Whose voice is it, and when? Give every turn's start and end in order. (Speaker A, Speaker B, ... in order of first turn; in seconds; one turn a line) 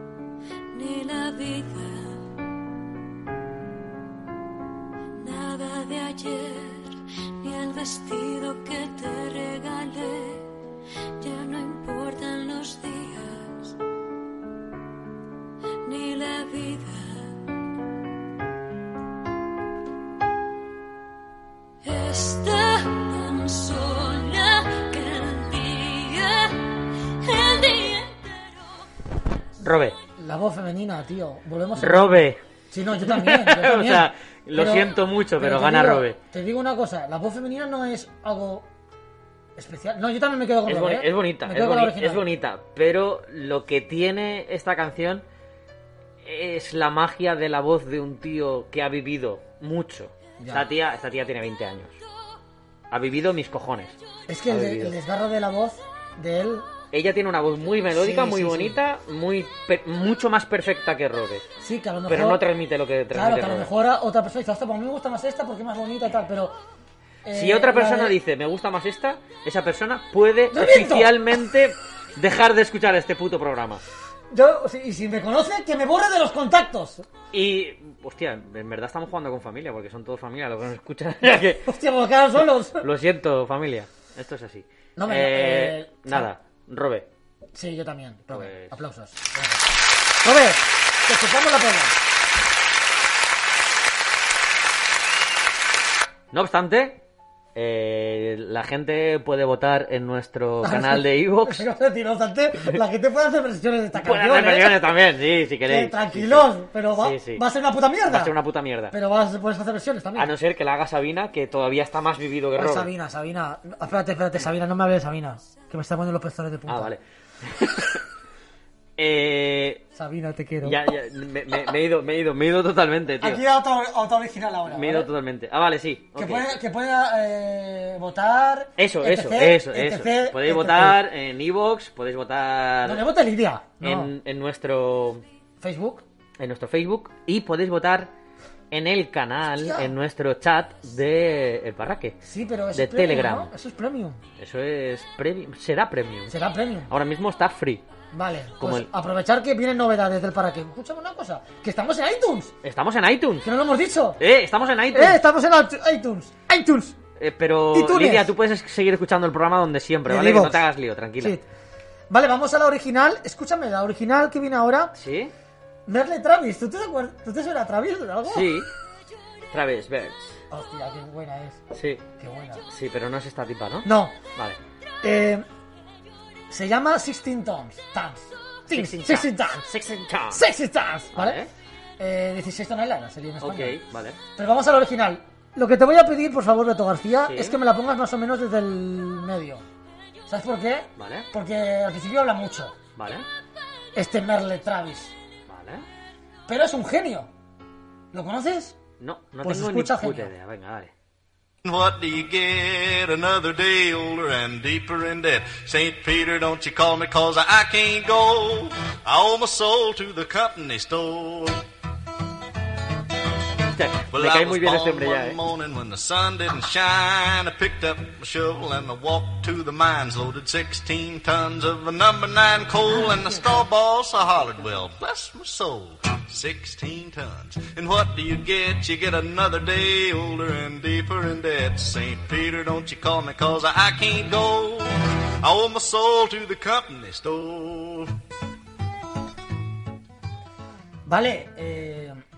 Speaker A: 0.7-2.2
Speaker A: 5.2-10.5
Speaker A: 11.2-13.8
Speaker A: 15.8-17.4
Speaker A: 21.8-28.4
Speaker B: 29.6-30.0
Speaker C: 30.2-38.7
Speaker B: 31.8-32.4
Speaker B: 33.0-36.2
Speaker C: 39.6-42.2
Speaker B: 40.7-45.2
Speaker B: 46.2-52.0
Speaker C: 50.4-50.7
Speaker B: 52.9-54.0
Speaker C: 54.3-56.7
Speaker B: 54.5-55.0
Speaker B: 56.9-61.5
Speaker C: 57.9-58.8
Speaker C: 61.6-62.4
Speaker B: 62.1-63.7
Speaker C: 63.1-66.6
Speaker C: 67.2-68.2
Speaker B: 67.3-73.8
Speaker C: 70.5-71.3
Speaker C: 74.3-77.1
Speaker B: 77.3-81.7
Speaker C: 81.7-82.8
Speaker B: 82.8-87.1
Speaker C: 85.0-86.3
Speaker C: 87.5-89.7
Speaker B: 88.3-88.8
Speaker C: 90.2-92.0
Speaker B: 96.3-97.0
Speaker B: 97.5-101.6
Speaker C: 100.6-104.9
Speaker B: 104.0-107.5
Speaker C: 105.7-108.3
Speaker B: 108.1-108.9
Speaker C: 108.9-110.3
Speaker B: 110.2-112.9
Speaker C: 112.6-116.9
Speaker B: 116.7-118.0
Speaker B: 119.0-119.8
Speaker C: 120.0-120.8
Speaker B: 120.6-123.4
Speaker C: 123.2-125.1
Speaker B: 124.7-126.5
Speaker C: 126.1-131.0
Speaker B: 128.8-133.0
Speaker C: 132.8-134.1
Speaker B: 133.8-135.2
Speaker C: 135.6-136.0
Speaker B: 136.4-138.1
Speaker B: 138.7-142.2
Speaker C: 139.6-139.9
Speaker C: 142.2-144.2
Speaker B: 142.7-143.5
Speaker B: 144.4-146.4
Speaker C: 146.3-146.9
Speaker B: 146.9-147.8
Speaker C: 148.1-152.5
Speaker B: 148.6-148.9
Speaker B: 152.6-153.5
Speaker C: 153.4-154.2
Speaker B: 154.2-155.2
Speaker C: 154.9-157.0
Speaker B: 157.2-161.4
Speaker C: 157.7-158.3
Speaker C: 160.1-160.6
Speaker C: 162.1-164.9
Speaker B: 164.9-165.3
Speaker C: 165.9-168.6
Speaker B: 168.3-168.7
Speaker B: 169.5-170.4
Speaker C: 170.5-171.6
Speaker B: 171.7-172.0
Speaker C: 172.2-172.6
Speaker B: 172.7-174.6
Speaker C: 173.8-174.2
Speaker C: 175.0-175.5
Speaker C: 176.5-179.7
Speaker B: 178.7-180.4
Speaker C: 180.3-181.4
Speaker B: 181.1-181.5
Speaker C: 182.0-183.8
Speaker B: 183.4-184.2
Speaker C: 184.4-189.6
Speaker B: 187.2-187.6
Speaker C: 190.3-192.8
Speaker B: 191.0-191.3
Speaker B: 193.0-193.3
Speaker C: 193.9-195.1
Speaker B: 195.5-195.8
Speaker C: 196.5-197.3
Speaker C: 198.1-198.8
Speaker B: 199.0-200.9
Speaker C: 199.4-200.3
Speaker D: 201.6-211.6
Speaker B: 213.8-215.4
Speaker D: 214.1-238.1
Speaker C: 241.1-242.2